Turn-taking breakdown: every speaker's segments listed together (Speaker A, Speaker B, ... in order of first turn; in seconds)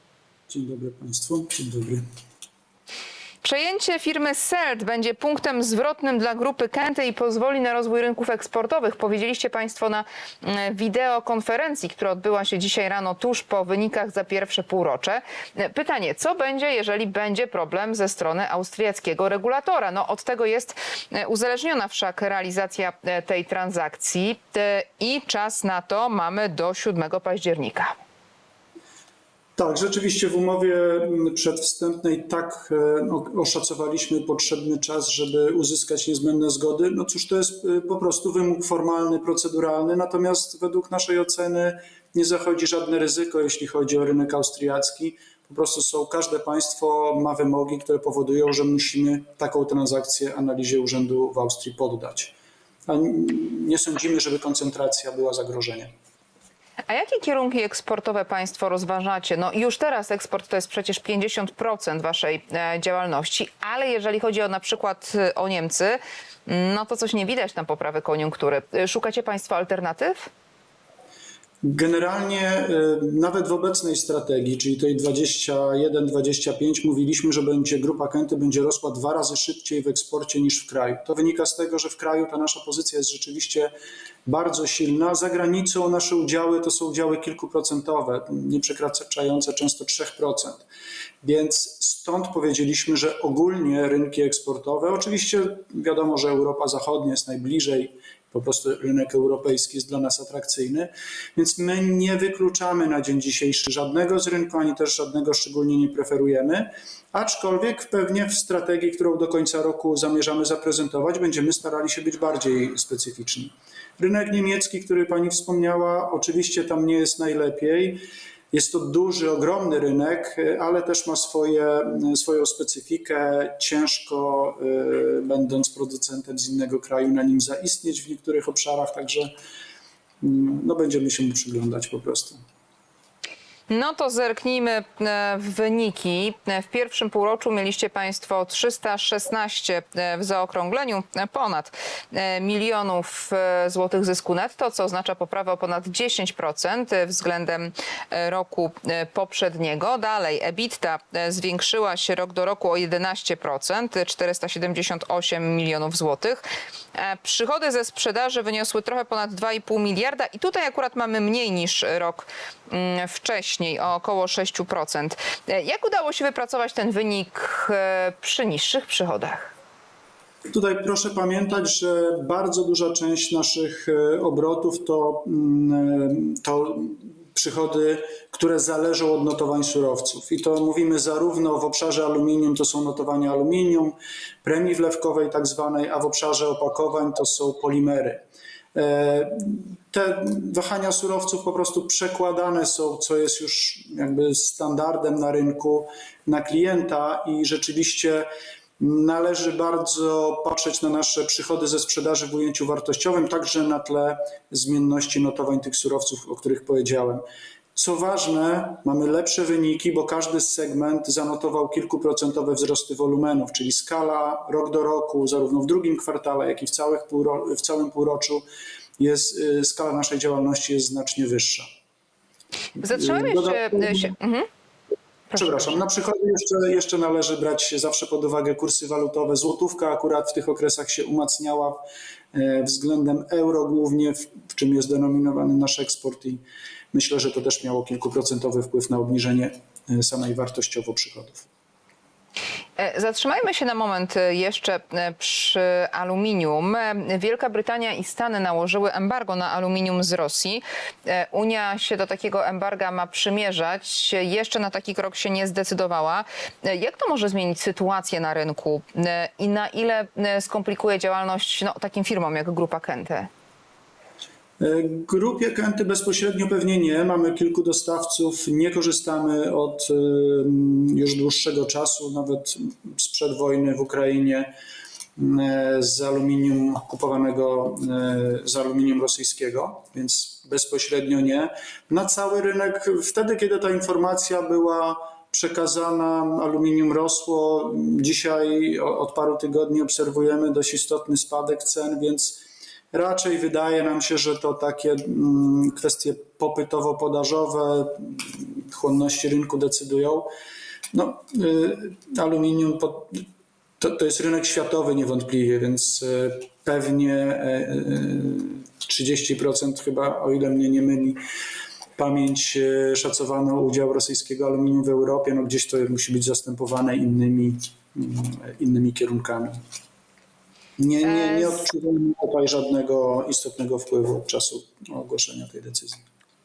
Speaker A: 0.5-2.0, 29.6-52.4, 52.9-55.9, 71.6-83.7, 84.3-90.7, 91.2-129.3, 130.2-132.4, 170.5-188.2, 188.7-198.3, 198.8-218.4, 219.0-221.7, 222.8-224.1, 225.4-231.8, 232.3-241.5, 264.6-274.5, 275.2-300.3, 300.9-303.2, 303.8-311.2, 312.0-319.6, 320.8-326.0
Speaker B: 3.4-28.0, 56.9-70.3, 133.7-169.6, 222.8-224.5, 225.3-225.6, 242.8-263.3, 321.0-321.6